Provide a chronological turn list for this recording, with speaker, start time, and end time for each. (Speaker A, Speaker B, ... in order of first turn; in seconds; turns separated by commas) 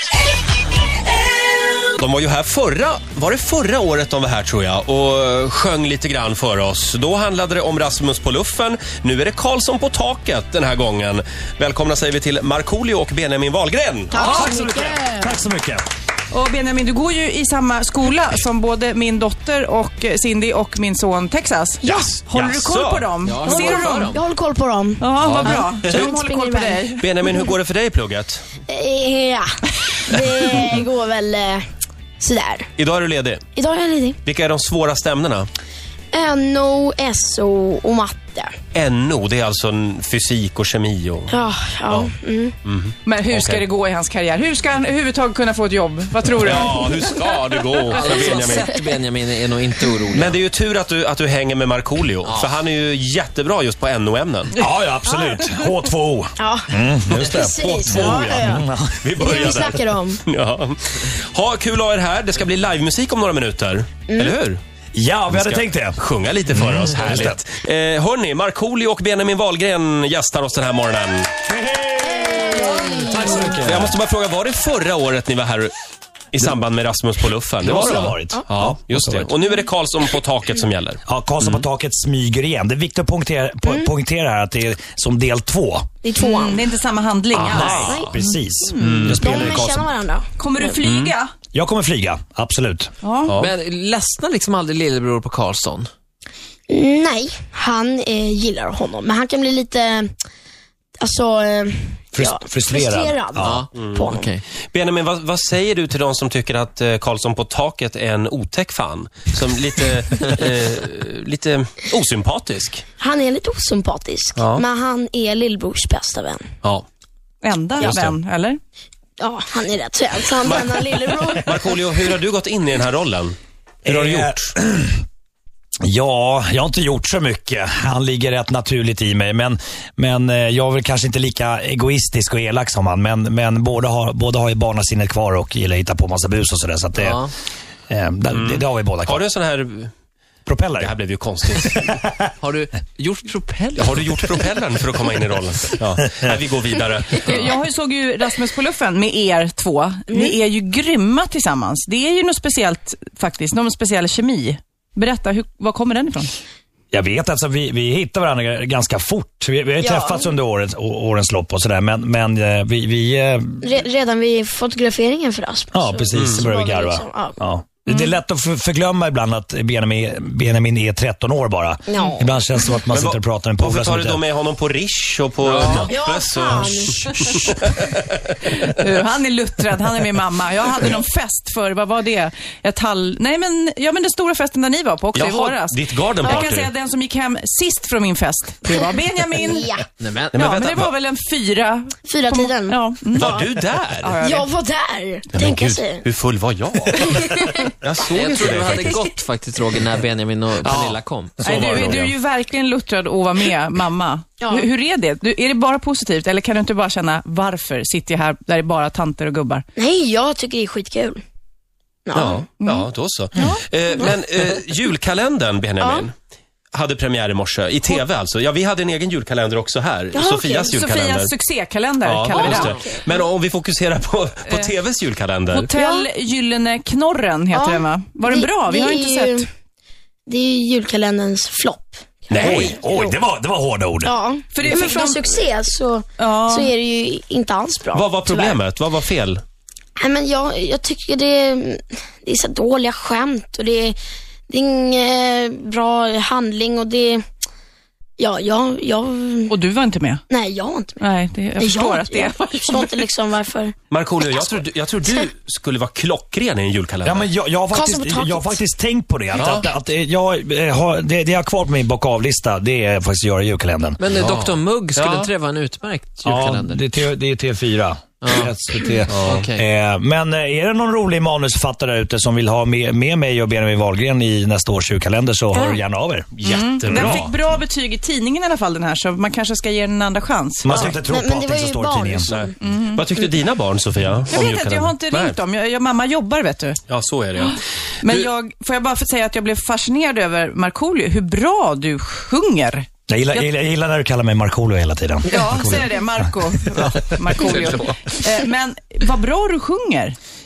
Speaker A: 1.9-14.2, Speaker B: 14.1-15.3, Speaker C: 14.2-14.6, Speaker D: 14.2-15.8, Speaker C: 16.3-24.2, Speaker D: 22.3-23.1, Speaker E: 23.2-24.2, Speaker B: 23.4-26.8, Speaker C: 25.0-27.4, Speaker E: 25.2-26.0, Speaker A: 27.0-28.5, Speaker B: 28.7-31.7, Speaker B: 32.2-32.7, Speaker A: 32.8-33.4, Speaker B: 33.6-34.2, Speaker A: 34.2-35.5, Speaker B: 36.1-38.5, Speaker A: 38.7-41.4, Speaker B: 41.3-42.6, Speaker A: 42.6-43.6, Speaker C: 43.0-48.9, Speaker A: 46.4-48.7, Speaker E: 47.9-50.4, Speaker A: 50.1-54.6, Speaker E: 52.2-52.5, Speaker D: 54.6-59.7, Speaker B: 56.4-58.6, Speaker A: 57.1-58.3, Speaker A: 59.0-64.6, Speaker B: 59.2-60.2, Speaker B: 64.1-64.4, Speaker D: 64.9-66.0, Speaker A: 65.3-71.3, Speaker D: 66.5-67.4, Speaker D: 71.5-74.0, Speaker B: 72.0-73.6, Speaker A: 73.4-75.7, Speaker A: 76.3-81.6, Speaker D: 77.6-79.3, Speaker D: 81.1-85.9, Speaker B: 86.0-86.6, Speaker C: 86.2-89.1, Speaker A: 87.3-88.2, Speaker D: 87.5-89.9, Speaker B: 87.8-88.1, Speaker A: 88.8-89.5, Speaker B: 89.1-90.8, Speaker C: 90.4-91.3, Speaker A: 90.8-91.1, Speaker D: 91.5-92.9, Speaker C: 93.0-93.4, Speaker A: 93.2-93.5, Speaker E: 93.4-95.9, Speaker B: 96.7-100.1, Speaker B: 101.0-104.3, Speaker D: 102.1-103.6, Speaker E: 103.4-104.4, Speaker A: 103.7-104.1, Speaker A: 104.7-112.8, Speaker B: 113.0-116.5, Speaker A: 114.4-114.7, Speaker C: 117.4-118.6, Speaker A: 117.8-118.2, Speaker B: 119.2-121.7, Speaker A: 120.4-120.8, Speaker A: 121.4-124.5, Speaker D: 123.8-125.0, Speaker D: 125.8-137.3, Speaker E: 136.9-137.3, Speaker D: 137.9-139.2, Speaker A: 138.3-139.9, Speaker D: 140.5-141.0, Speaker A: 140.8-141.9, Speaker D: 141.8-142.3, Speaker E: 142.4-144.6, Speaker A: 143.8-147.5, Speaker C: 147.2-156.3, Speaker B: 150.1-150.4, Speaker D: 156.9-163.7, Speaker B: 159.8-160.3, Speaker B: 163.6-167.4, Speaker D: 165.7-174.2, Speaker A: 166.1-166.5, Speaker C: 167.9-168.2, Speaker B: 171.9-172.3, Speaker A: 172.9-178.0, Speaker E: 175.5-175.9, Speaker B: 175.9-177.5, Speaker C: 178.5-189.7, Speaker A: 185.1-186.7, Speaker B: 186.2-186.5, Speaker B: 189.3-189.9, Speaker E: 190.0-190.9, Speaker C: 190.3-194.5, Speaker A: 190.4-190.9, Speaker B: 192.1-192.8, Speaker A: 193.1-194.2, Speaker B: 194.2-196.1, Speaker A: 195.3-199.0, Speaker B: 196.9-197.7, Speaker E: 198.1-202.0, Speaker C: 198.6-199.2, Speaker A: 200.6-202.1, Speaker C: 201.4-209.6, Speaker B: 204.4-204.7, Speaker B: 209.8-211.2, Speaker B: 212.1-212.4, Speaker A: 212.1-216.1, Speaker C: 212.6-214.1, Speaker B: 215.8-216.1, Speaker A: 216.7-221.3, Speaker B: 220.1-220.7, Speaker C: 220.6-222.8, Speaker A: 222.0-225.7, Speaker E: 222.4-222.8, Speaker B: 222.6-223.0, Speaker C: 225.5-229.5, Speaker B: 225.7-226.1, Speaker B: 227.5-229.4, Speaker B: 230.3-233.0, Speaker A: 232.3-232.8, Speaker D: 232.4-234.1, Speaker B: 234.0-238.6, Speaker C: 234.5-235.4, Speaker C: 236.2-236.7, Speaker A: 237.9-239.4, Speaker B: 240.0-244.0, Speaker B: 244.5-247.2, Speaker B: 248.2-249.5, Speaker C: 249.5-250.2, Speaker B: 250.3-251.0, Speaker C: 251.0-253.0, Speaker B: 251.6-253.8, Speaker A: 253.9-257.3, Speaker D: 257.0-264.0, Speaker B: 257.7-258.6, Speaker A: 259.4-259.7, Speaker E: 264.0-266.8, Speaker A: 264.1-265.3, Speaker D: 266.2-277.4, Speaker E: 268.2-268.5, Speaker A: 269.1-269.5, Speaker E: 269.2-269.6, Speaker C: 275.5-275.8, Speaker A: 276.4-277.2, Speaker C: 276.4-280.9, Speaker D: 280.6-282.3, Speaker B: 280.7-282.5, Speaker A: 282.3-285.4, Speaker C: 282.6-283.3, Speaker C: 284.3-286.8, Speaker A: 286.9-287.5, Speaker C: 287.4-293.5, Speaker D: 293.1-295.9, Speaker C: 295.3-300.2, Speaker E: 297.4-297.9